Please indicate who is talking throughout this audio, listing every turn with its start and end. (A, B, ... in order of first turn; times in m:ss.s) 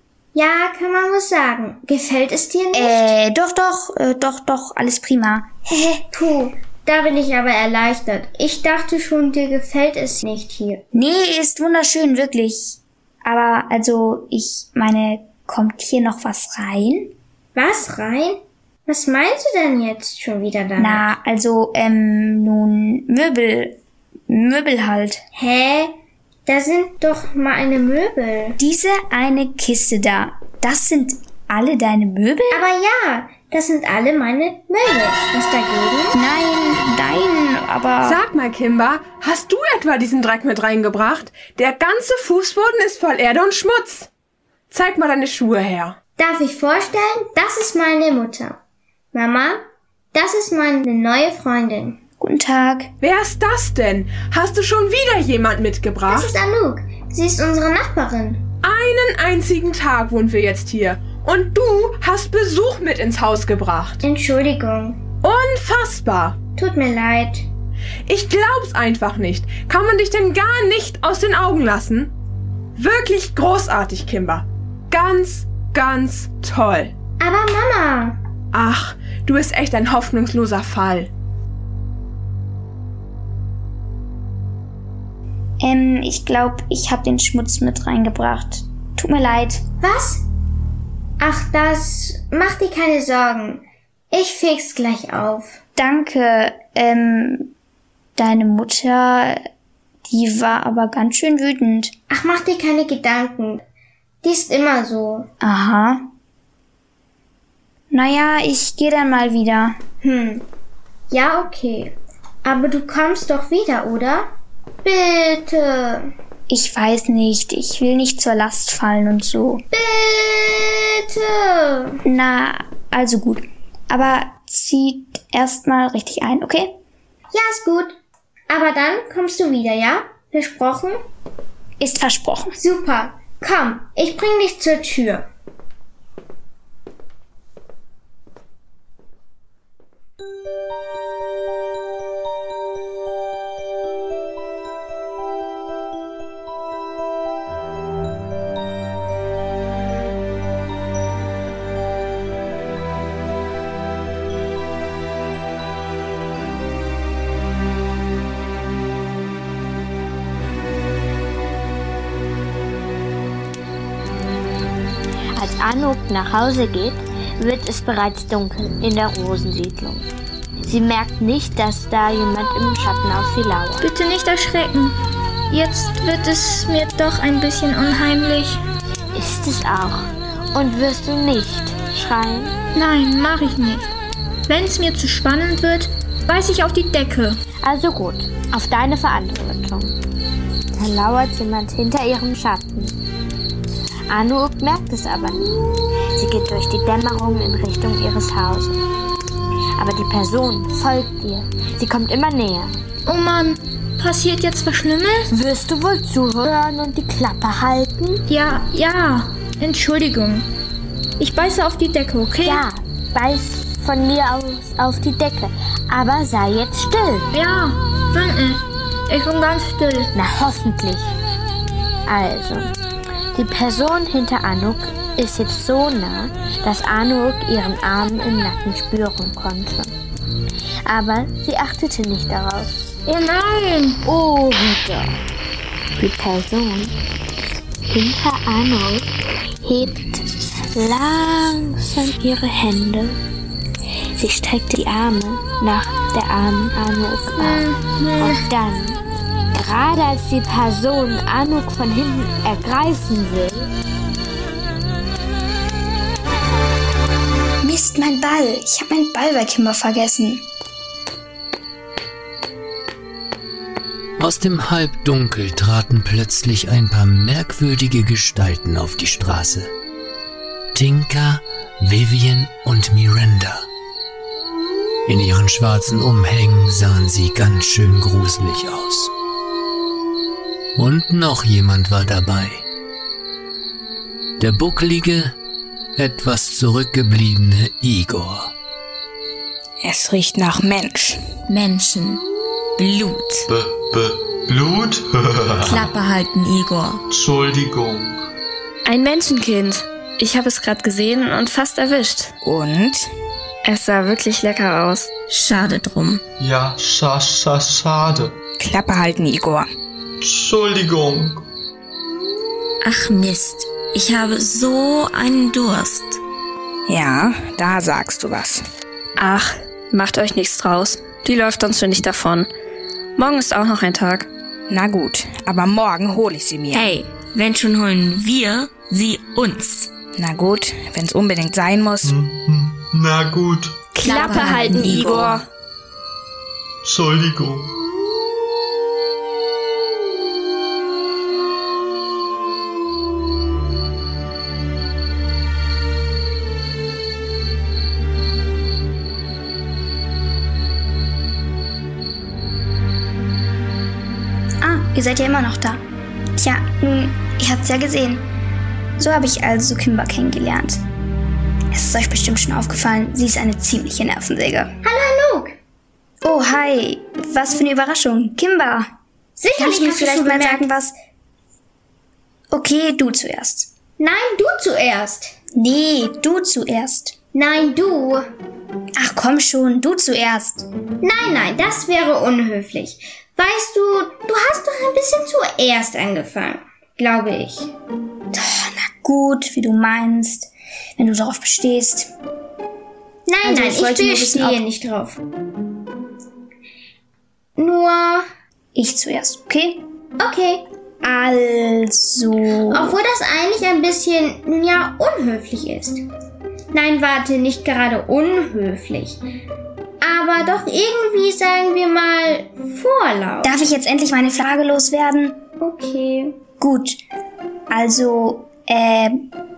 0:00.3-0:03.1 A
0:02.7-0:05.5 B
0:05.7-0:10.8 A
0:10.9-0:17.1 B
0:17.5-0:21.1 A
0:20.8-0:25.2 B
0:25.3-0:25.9 A
0:26.5-0:28.6 A
0:28.6-0:32.6 B
0:32.5-0:36.2 A
0:36.1-0:38.2 B
0:38.0-0:44.1 C
0:44.7-0:46.0 C
0:46.2-0:48.6 A
0:49.1-0:52.0 A
0:52.2-0:52.9 B
0:53.0-0:56.3 C
0:56.1-0:58.4 A
0:58.6-1:04.0 C
1:04.0-1:05.0 A
1:05.2-1:06.4 C
1:06.6-1:07.5 A
1:08.1-1:12.1 C
1:12.8-1:16.9 C
1:17.2-1:18.2 A
1:18.5-1:21.1 C
1:25.6-1:29.6 B
1:29.8-1:30.2 A
1:31.2-1:35.6 A
1:35.8-1:37.5 B
1:38.2-1:39.4 B
1:40.1-1:41.9 B
1:42.1-1:43.6 A
1:44.2-1:45.3 A
1:45.4-1:46.0 B
1:47.9-1:49.8 B
1:50.0-1:50.4 A
1:51.1-1:54.3 A
1:54.8-1:56.1 A
1:56.5-1:59.6 B
1:59.7-2:02.0 A
2:02.0-2:06.8 B
2:07.3-2:08.0 A
2:08.5-2:11.0 A
2:11.8-2:12.6 B
2:12.6-2:15.3 A
2:45.3-2:50.1 D
2:50.6-2:53.8 D
2:53.8-2:55.0 E
2:55.5-2:58.6 E
2:59.1-3:02.5 D
3:02.7-3:03.9 E
3:04.5-3:07.4 E
3:07.6-3:10.0 D
3:10.7-3:13.0 D
3:14.1-3:18.8 D
3:19.8-3:22.8 D
3:23.0-3:25.3 E
3:25.3-3:28.2 D
3:28.3-3:30.5 E
3:31.2-3:32.6 E
3:32.4-3:37.3 D
3:37.3-3:40.1 E
3:40.1-3:41.2 D
3:42.0-3:42.7 D
3:43.3-3:49.9 D
3:50.8-3:52.7 D
3:53.1-3:54.0 E
3:54.0-3:55.1 D
3:56.0-3:56.9 D
3:57.9-3:59.1 D
3:59.6-4:03.2 D
4:04.2-4:09.0 D
4:07.4-4:08.4 A
4:09.5-4:13.7 D
4:17.6-4:20.4 B
4:24.2-4:29.7 F
4:30.7-4:33.7 F
4:35.1-4:39.1 F
4:40.8-4:42.6 F
4:44.4-4:45.3 F
4:46.0-4:48.5 F
4:49.8-4:51.2 G
4:51.5-4:52.2 H
4:52.8-4:53.4 H
4:53.5-4:55.9 I
4:55.6-4:57.0 H
4:57.1-4:58.3 I
4:58.8-5:02.3 J
5:02.4-5:03.1 G
5:03.6-5:05.1 J
5:05.3-5:06.2 H
5:06.4-5:08.4 I
5:08.6-5:09.7 G
5:10.2-5:11.4 I
5:12.8-5:16.2 H
5:16.9-5:18.6 G
5:19.2-5:22.5 J
5:23.2-5:24.3 J
5:24.7-5:26.9 G
5:26.7-5:29.9 H
5:30.2-5:32.1 G
5:32.0-5:33.8 I
5:33.9-5:35.4 J
5:34.0-5:35.4 H
5:34.1-5:35.2 G
5:36.8-5:37.7 I
5:54.6-5:55.8 B
5:56.4-5:58.3 B
5:59.0-6:00.8 B
6:01.7-6:04.8 B
6:04.8-6:05.5 A
6:06.2-6:08.9 B
6:09.4-6:10.7 A
6:09.6-6:10.9 B
6:12.5-6:13.7 B
6:14.0-6:15.4 A
6:15.5-6:17.1 B
6:17.3-6:18.2 A
6:19.0-6:20.7 B
6:21.0-6:27.7 A
6:28.3-6:32.1 B
6:33.3-6:35.2 A
6:33.4-6:34.6 B
6:37.6-6:38.2 A
6:38.7-6:39.8 B
6:40.2-6:40.6 A
6:41.0-6:43.0 B
6:42.7-6:46.0 A
6:46.7-6:49.2 A
6:50.0-6:53.6 A
6:53.4-6:55.4 B
6:55.6-6:56.4 A
6:56.6-6:57.0 B
6:57.7-6:59.3 B